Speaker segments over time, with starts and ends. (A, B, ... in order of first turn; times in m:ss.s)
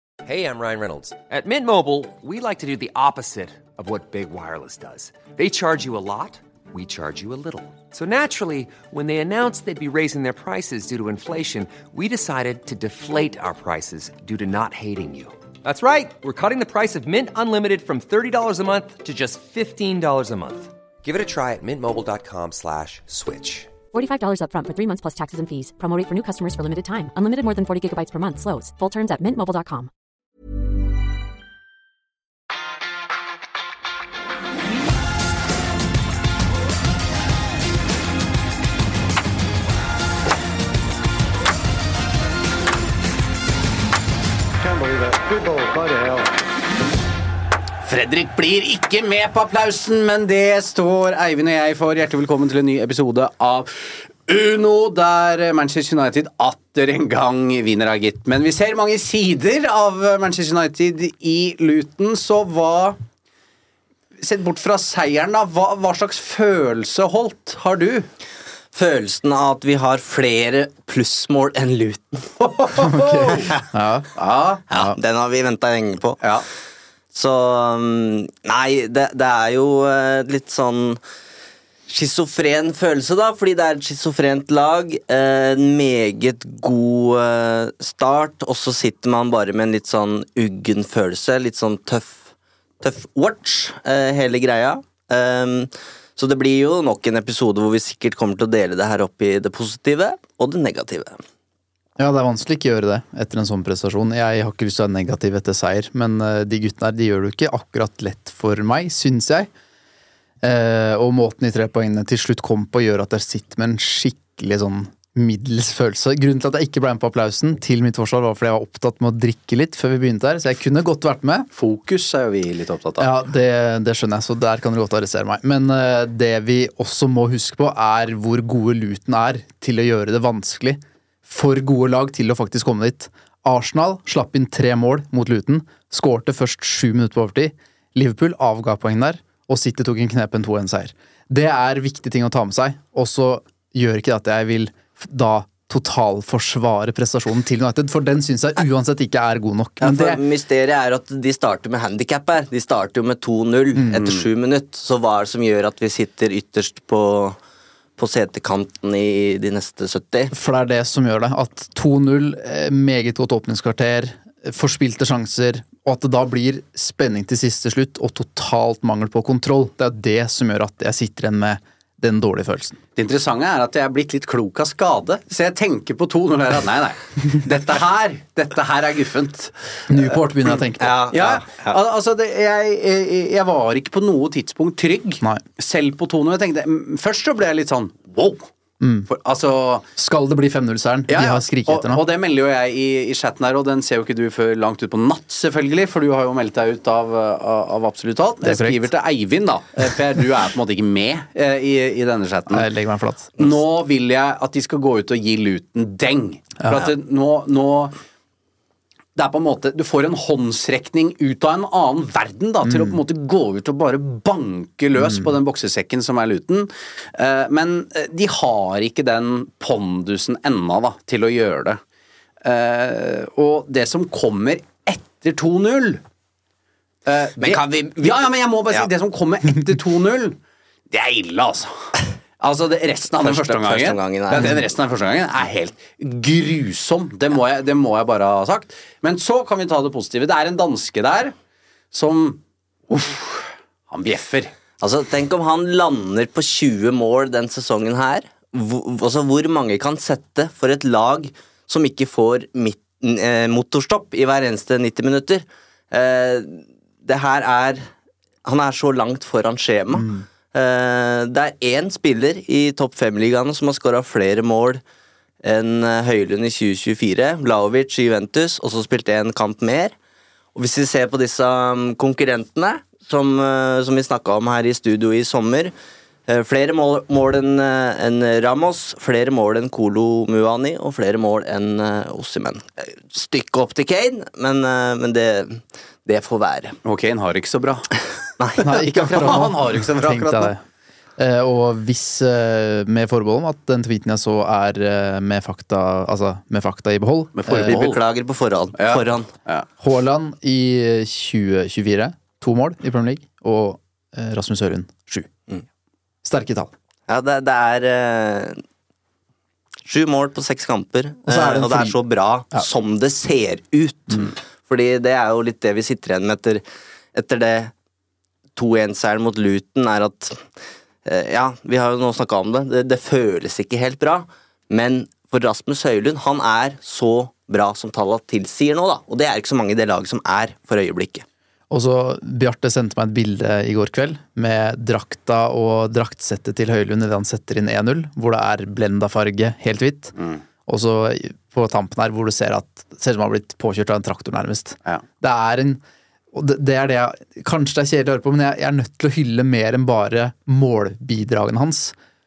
0:00.2-0:23.8 A
0:23.9-0:29.9 B
0:44.8-0:46.1 C
0:47.8-1:03.0 C
1:04.2-1:08.1 C
1:08.7-1:12.5 D
1:12.8-1:14.1 E
1:14.2-1:14.6 C
1:14.7-1:16.2 D
1:14.7-1:15.0 E
1:17.1-1:21.0 D
1:21.9-1:32.3 D
1:32.8-1:41.2 D
1:42.0-1:49.5 E
1:50.4-2:01.5 E
2:01.5-2:03.1 C
2:03.0-2:30.2 E
2:29.8-2:37.4 D
2:38.0-2:40.3 D
2:40.3-2:52.8 E
2:53.0-2:59.8 C
2:59.9-3:01.0 E
3:00.8-3:01.8 D
3:01.1-3:08.5 C
3:08.8-3:09.1 E
3:09.1-3:09.9 C
3:10.0-3:12.0 E
3:11.1-3:22.7 C
3:18.4-3:18.8 E
3:22.5-3:23.4 E
3:23.4-3:28.0 C
3:26.6-3:26.9 E
3:29.2-3:41.8 C
3:32.6-3:33.0 E
3:35.0-3:35.3 E
3:42.4-3:46.0 C
3:47.1-3:50.4 C
3:47.4-3:48.9 D
3:50.9-3:51.9 C
3:52.4-4:01.3 C
3:53.2-3:54.5 D
4:01.9-4:04.5 C
4:04.8-4:17.9 D
4:18.5-4:24.8 D
4:19.9-4:20.3 E
4:25.4-4:29.9 D
4:30.6-4:35.7 D
4:36.3-4:46.8 D
4:46.8-4:47.9 C
4:48.6-4:50.6 E
4:49.0-4:50.5 C
4:51.2-4:57.8 E
4:57.4-4:58.0 C
4:57.6-4:59.3 D
4:58.8-4:59.7 C
4:59.8-5:05.3 E
5:06.2-5:06.7 E
5:07.1-5:08.6 D
5:09.9-5:16.6 D
5:11.3-5:12.0 E
5:17.1-5:17.7 D
5:18.6-5:20.4 D
5:21.0-5:31.2 D
5:31.7-5:45.8 E
5:40.2-5:40.4 C
5:46.3-5:52.0 E